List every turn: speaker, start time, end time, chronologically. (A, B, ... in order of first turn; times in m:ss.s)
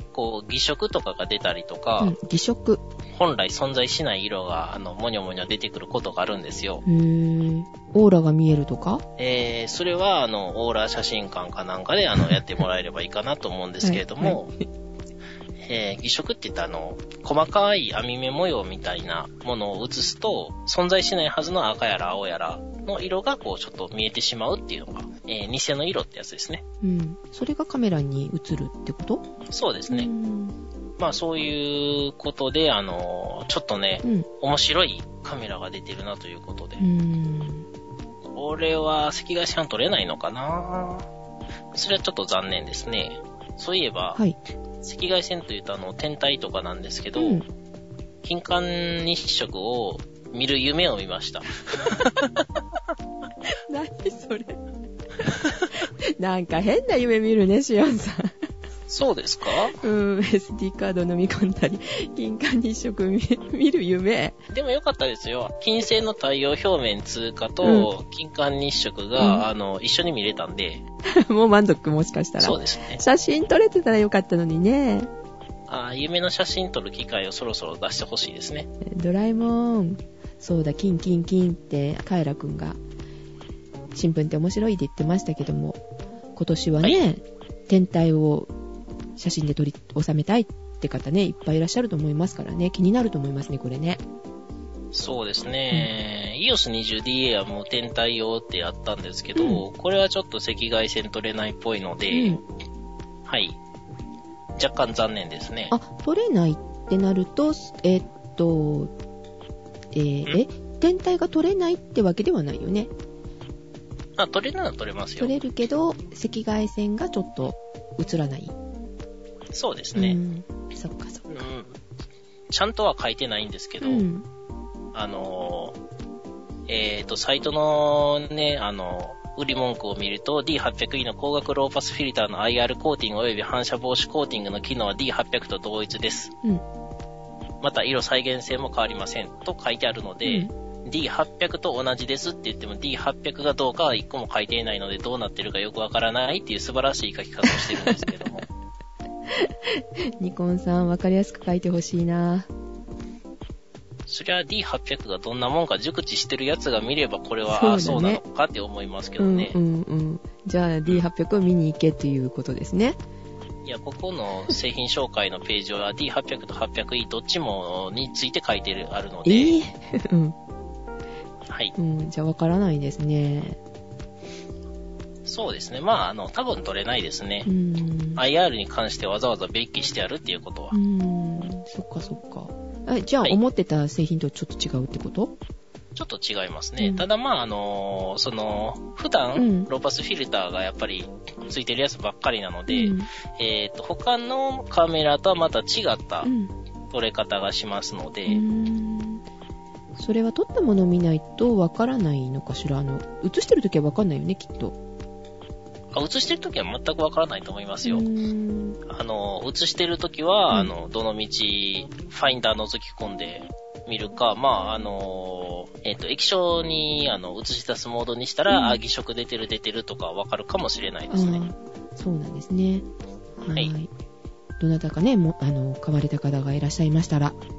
0:00.1-0:02.2 A
0:02.0-0:02.8 B
0:03.1-0:06.8 A
0:06.8-0:09.0 B
0:09.2-0:14.5 A
0:13.8-0:14.6 B
0:15.6-0:26.6 A
0:26.8-0:29.2 B
0:29.5-0:30.1 A
0:29.9-0:30.6 B
0:31.0-0:36.8 A
0:36.8-0:37.7 B
0:38.3-0:41.1 A
0:41.7-0:44.2 A
0:44.8-0:47.4 A
0:47.2-0:47.5 B
0:48.2-0:52.4 A
0:53.7-0:54.6 B
0:55.2-0:58.3 B
0:58.9-0:59.8 A
0:59.7-1:04.4 B
1:04.5-1:10.8 A
1:07.6-1:07.9 B
1:09.2-1:09.5 B
1:11.1-1:15.1 B
1:12.4-1:13.0 A
1:15.7-1:18.7 A
1:18.8-1:22.8 B
1:23.9-1:25.8 B
1:26.4-1:28.5 B
1:29.2-1:34.0 B
1:34.9-1:42.4 A
1:39.4-1:39.6 B
1:42.1-1:42.4 B
1:43.2-1:43.6 A
1:44.6-1:45.7 A
1:45.7-1:48.9 B
1:49.9-1:52.9 B
1:54.2-1:55.3 A
1:55.2-1:58.6 B
1:59.5-2:00.2 A
2:00.0-2:01.3 B
2:01.3-2:01.8 A
2:02.5-2:04.1 A
2:03.8-2:04.3 B
2:04.9-2:05.8 A
2:06.7-2:16.3 A
2:17.6-2:28.5 A
2:20.2-2:20.5 B
2:27.5-2:28.1 B
2:29.3-2:32.5 B
2:34.1-2:39.6 A
2:37.5-2:38.2 B
2:39.2-2:43.0 B
2:43.6-2:49.6 A
2:49.2-2:50.4 B
2:51.5-2:51.7 A
2:51.8-2:53.6 B
2:55.2-2:57.5 A
2:57.4-2:58.2 B
2:58.2-3:00.8 A
3:00.7-3:05.4 B
3:06.0-3:16.3 A
3:06.8-3:07.0 B
3:09.4-3:09.7 B
3:12.7-3:13.1 B
3:16.2-3:16.5 B
3:16.9-3:18.4 A
3:18.3-3:19.2 B
3:20.0-3:24.8 B
3:25.9-3:28.1 A
3:27.8-3:28.8 B
3:28.9-3:41.5 A
3:38.5-3:38.8 B
3:41.1-3:42.9 B
3:43.4-3:43.9 B
3:44.6-3:47.4 B